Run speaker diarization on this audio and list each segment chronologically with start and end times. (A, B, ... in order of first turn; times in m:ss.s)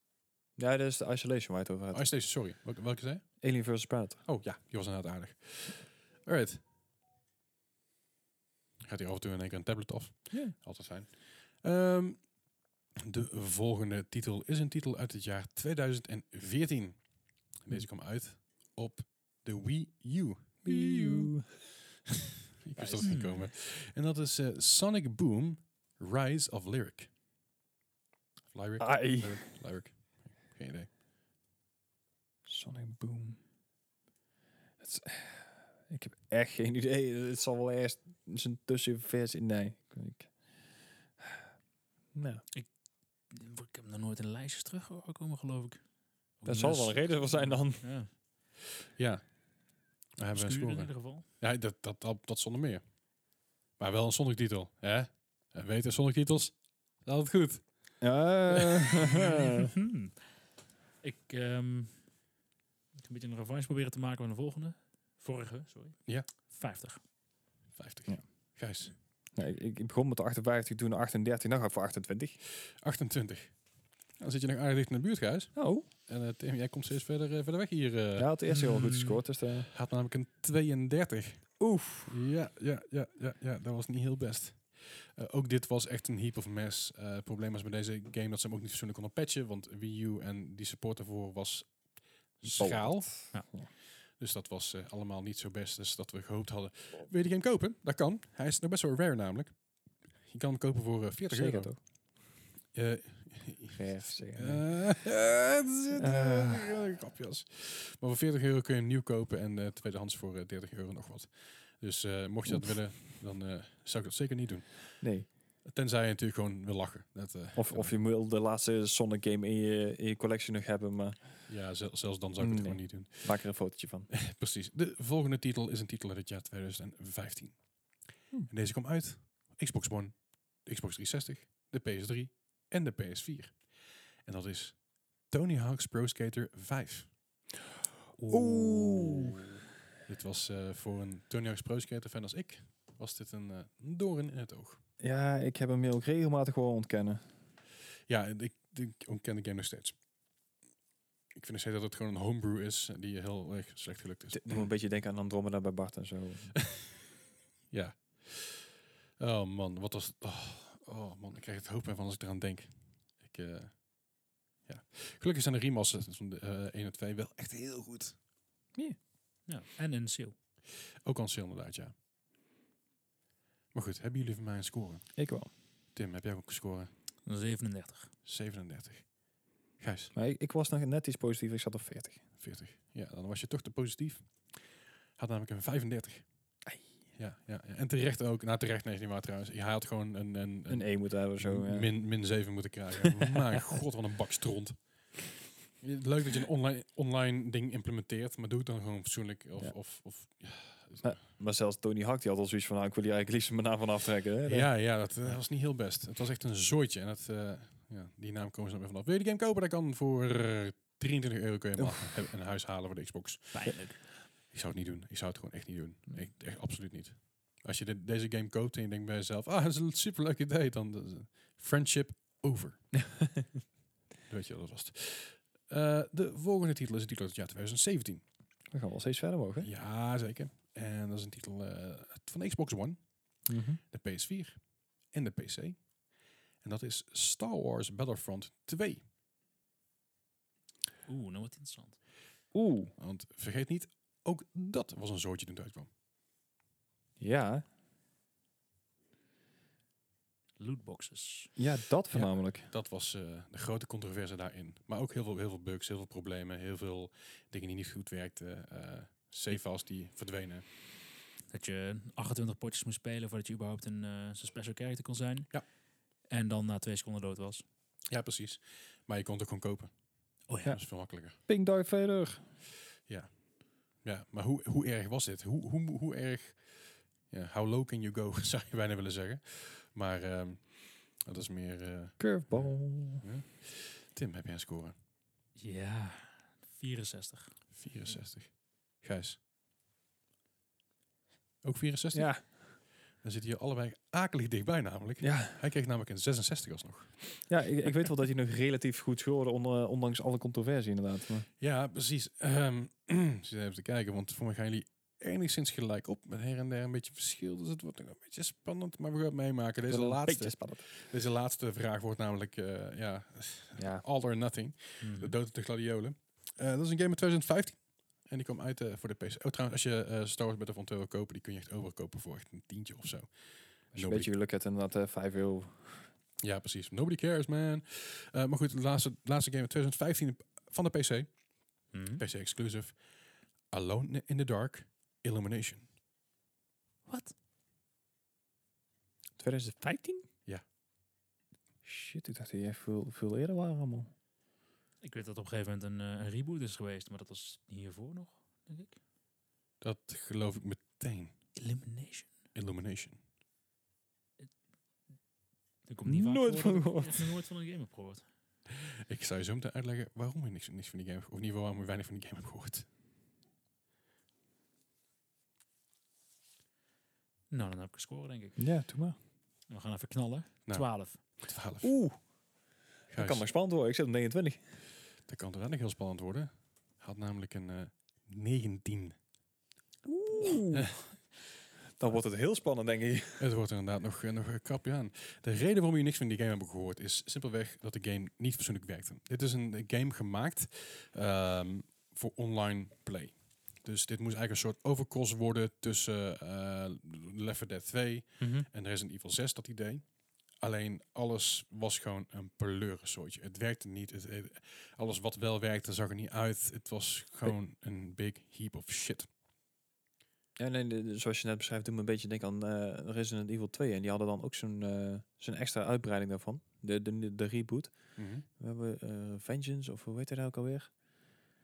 0:00.6-0:02.1 A
0:01.9-0:03.3 B
0:03.4-0:04.2 A
0:04.2-0:06.6 B
0:08.8-0:12.3 B
0:13.0-0:21.6 B
0:20.6-0:21.4 A
0:22.6-0:27.1 B
0:22.8-0:23.2 A
0:23.0-0:23.5 C
0:28.5-0:30.9 B
0:28.8-0:29.5 A
0:32.4-0:33.4 A
0:34.8-0:40.3 A
0:41.2-0:41.4 A
0:42.1-0:42.4 A
0:43.3-0:45.8 C
0:46.4-0:48.1 C
0:46.4-0:47.8 A
0:49.0-0:49.4 B
0:50.2-0:53.0 B
0:50.3-0:51.2 C
0:53.8-0:59.2 B
0:58.0-0:59.7 A
0:59.8-1:00.3 C
1:01.0-1:02.2 C
1:03.0-1:07.0 C
1:07.7-1:08.9 B
1:09.3-1:12.4 A
1:12.8-1:18.3 B
1:15.5-1:15.9 A
1:18.2-1:19.7 A
1:18.5-1:19.2 C
1:19.7-1:33.3 B
1:21.6-1:22.1 A
1:32.5-1:33.7 A
1:34.1-1:39.7 B
1:40.2-1:42.2 B
1:41.3-1:41.8 A
1:42.7-1:57.9 B
1:43.7-1:45.0 A
1:46.0-1:46.8 A
1:55.0-1:55.3 A
1:57.5-2:01.4 A
2:01.5-2:03.6 B
2:02.4-2:04.1 A
2:04.1-2:07.6 B
2:08.5-2:17.1 B
2:18.2-2:19.3 C
2:18.3-2:19.5 A
2:20.0-2:24.8 B
2:25.0-2:27.2 A
2:28.1-2:30.0 B
2:31.4-2:34.7 B
2:34.3-2:36.6 A
2:37.7-2:43.9 B
2:44.6-2:48.2 B
2:49.5-2:50.3 C
2:51.0-2:51.9 B
2:53.7-2:55.2 B
2:55.2-2:55.5 A
2:55.9-2:56.9 B
2:57.2-2:58.1 C
2:58.2-2:59.2 B
2:59.8-3:00.1 B
3:00.1-3:02.2 A
3:02.4-3:04.6 B
3:05.2-3:06.2 B
3:07.2-3:21.2 B
3:10.7-3:11.9 A
3:21.0-3:24.9 A
3:24.4-3:33.7 B
3:33.5-3:34.1 C
3:34.5-3:42.9 B
3:44.3-3:48.2 B
3:48.7-3:49.7 A
3:49.6-3:53.0 B
3:53.4-3:53.8 A
3:53.9-3:55.8 B
3:56.6-3:59.0 B
4:01.1-4:02.0 C
4:02.5-4:02.9 A
4:03.0-4:05.9 B
4:07.2-4:07.6 A
4:10.6-4:11.5 C
4:11.6-4:12.7 A
4:12.1-4:20.6 B
4:21.5-4:25.6 C
4:26.3-4:27.6 C
4:28.1-4:29.9 B
4:30.5-4:30.8 C
4:30.7-4:31.4 B
4:31.4-4:32.5 A
4:33.0-4:33.3 B
4:34.0-4:44.9 B
4:42.2-4:43.2 A
4:45.5-4:48.1 C
4:47.7-4:49.4 B
4:51.6-4:57.3 B
4:52.1-4:52.5 A
4:55.2-4:55.6 A
4:57.5-5:01.5 A
5:01.6-5:24.3 B
5:09.9-5:10.8 A
5:13.8-5:14.0 A
5:15.0-5:15.3 C
5:23.9-5:26.1 A
5:26.4-5:31.4 B
5:31.9-5:32.2 C
5:32.2-5:33.0 B
5:33.7-5:35.9 B
5:37.0-5:37.3 C
5:39.4-5:40.2 A
5:41.8-5:44.1 A
5:45.0-5:49.0 C
5:49.8-5:51.3 B
5:51.6-5:52.3 C
5:52.5-5:53.2 B
5:55.9-5:58.2 C
5:56.0-5:57.3 A
5:59.1-6:02.9 B
6:07.5-6:08.6 C
6:08.6-6:09.2 A
6:09.7-6:11.2 C
6:10.7-6:11.9 B
6:11.8-6:12.2 A
6:13.1-6:13.4 B
6:13.1-6:14.6 A
6:15.2-6:19.2 B
6:20.0-6:21.0 A
6:22.0-6:23.4 A
6:23.4-6:49.3 B
6:38.4-6:38.7 A
6:50.6-7:00.9 A
6:58.2-6:58.4 B